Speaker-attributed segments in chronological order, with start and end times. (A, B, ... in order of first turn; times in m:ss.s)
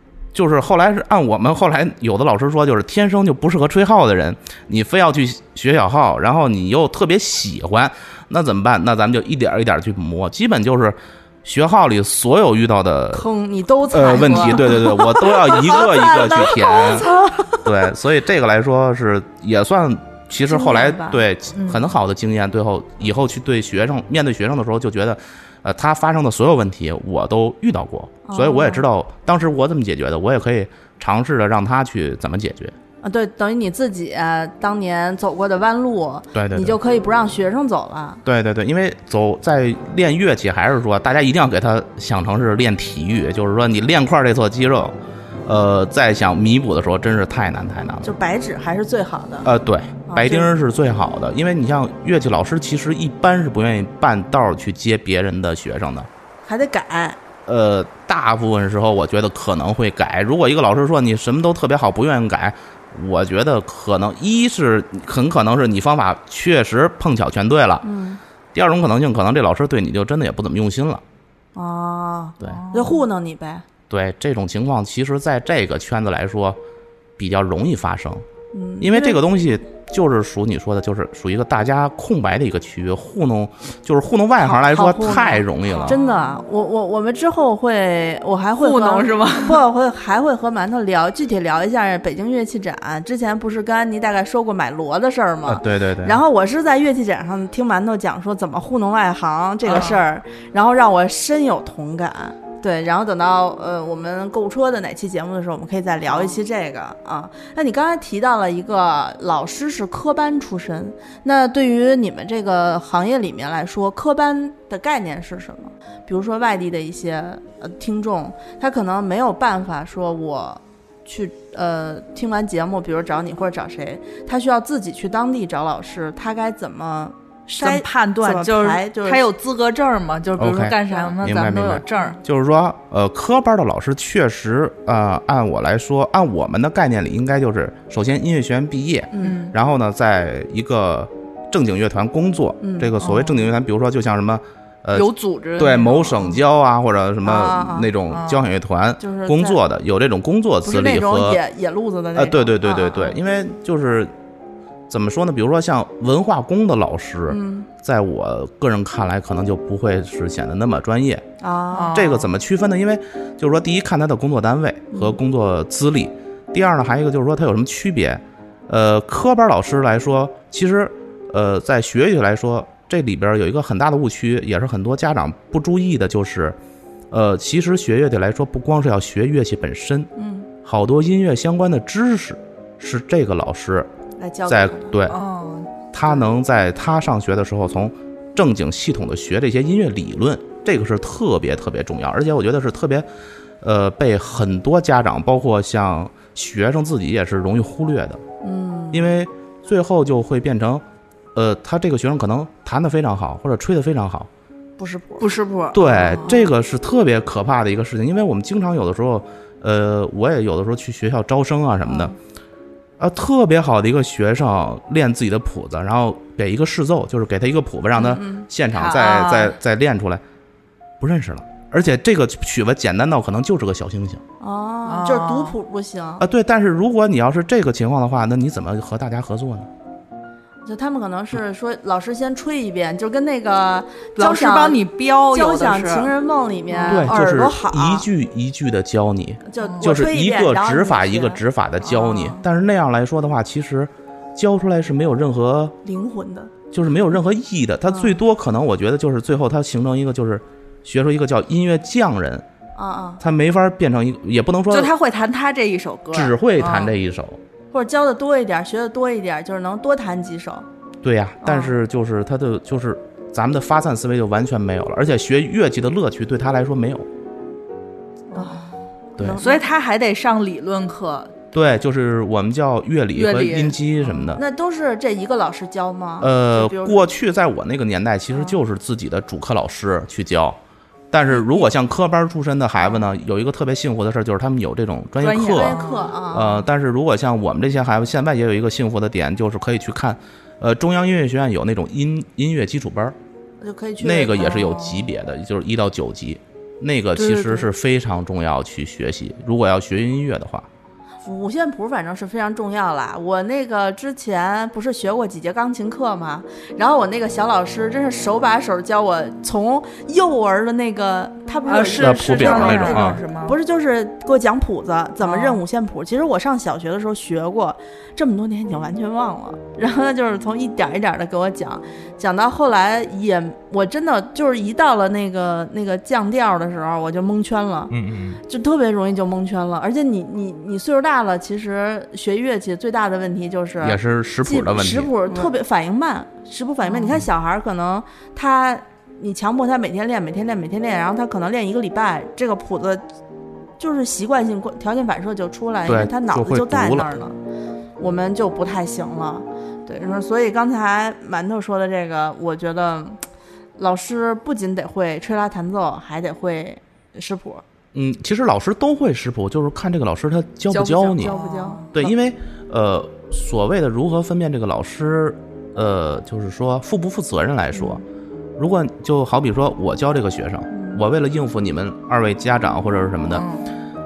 0:00.3-0:13.3 A
0:13.1-0:17.6 B
0:13.9-0:17.1 A
0:17.6-0:32.8 A
0:20.4-0:21.2 B
0:21.6-0:21.8 C
0:28.3-0:28.8 B
0:33.0-0:38.2 B
0:36.3-0:36.8 A
0:38.2-0:45.0 A
0:45.5-0:48.1 A
0:48.0-0:49.5 B
0:49.4-0:56.1 A
0:50.1-0:50.6 B
0:56.5-0:57.2 B
0:57.5-1:07.9 A
1:07.8-1:08.2 B
1:08.5-1:11.0 A
1:11.6-1:13.6 B
1:12.4-1:13.0 C
1:13.9-1:16.6 A
1:17.2-1:18.2 A
1:18.5-1:19.2 B
1:18.8-1:26.0 A
1:24.4-2:09.2 B
1:25.6-1:26.0 C
1:28.6-1:29.6 C
1:35.4-1:36.2 A
1:39.6-1:40.0 C
2:07.6-2:12.2 C
2:10.4-2:31.4 A
2:19.1-2:19.5 B
2:19.2-2:19.5 C
2:22.6-2:23.0 B
2:23.0-2:23.5 C
2:24.9-2:26.4 C
2:27.2-2:27.9 B
2:28.1-2:28.5 C
2:29.0-2:29.6 B
2:30.6-2:33.2 B
2:32.1-2:34.1 A
2:34.9-2:41.3 A
2:37.3-2:37.7 B
2:41.4-2:42.0 B
2:41.7-2:42.3 C
2:41.9-2:56.6 A
2:44.9-2:45.2 B
2:57.1-3:00.1 A
3:00.2-3:00.5 B
3:00.6-3:03.9 A
3:04.2-3:05.0 B
3:04.5-3:05.2 A
3:05.1-3:05.7 C
3:05.9-3:13.0 A
3:13.6-3:18.2 A
3:18.4-3:19.1 B
3:18.9-3:20.8 A
3:21.4-3:24.3 A
3:24.8-3:25.4 B
3:25.2-3:26.5 C
3:25.7-3:32.1 A
3:33.0-3:40.2 A
3:38.0-3:38.5 B
3:38.7-3:39.6 C
3:41.0-3:44.2 A
3:44.4-3:46.2 B
3:44.9-3:45.6 C
3:46.2-3:49.7 A
3:50.6-3:54.8 B
3:54.2-3:56.1 C
3:55.3-3:58.1 B
3:56.7-3:57.2 C
3:56.9-4:05.8 A
3:59.5-4:01.4 B
3:59.6-3:59.9 C
4:01.8-4:02.4 C
4:05.8-4:06.5 B
4:06.7-4:12.4 A
4:12.8-4:13.2 B
4:13.2-4:14.9 A
4:14.7-4:16.9 C
4:16.1-4:17.4 A
4:17.7-4:20.6 B
4:21.0-4:27.1 A
4:21.4-4:21.7 B
4:28.3-4:28.6 C
4:28.3-4:29.6 B
4:29.2-4:29.4 A
4:29.4-4:31.3 C
4:31.5-4:34.4 A
4:33.1-4:34.3 C
4:34.4-4:37.1 B
4:36.2-4:40.6 A
4:41.1-4:45.8 A
4:45.2-4:46.1 C
4:45.5-4:46.7 B
4:46.3-4:53.2 A
4:53.6-4:54.7 B
4:54.0-5:00.7 A
4:54.4-4:55.1 C
4:57.2-4:57.6 B
5:01.2-5:43.0 B
5:11.7-5:13.6 C
5:12.0-5:13.2 A
5:15.2-5:15.6 C
5:27.9-5:28.4 A
5:33.8-5:35.1 A
5:43.8-5:47.4 B
5:45.9-5:47.1 A
5:48.0-5:53.2 B
5:53.8-5:57.6 B
5:57.9-6:01.4 A
6:00.7-6:02.1 B
6:01.2-6:01.9 C
6:01.9-6:08.0 A
6:07.8-6:08.0 B
6:08.6-6:13.5 A
6:10.7-6:11.0 B
6:13.3-6:13.6 C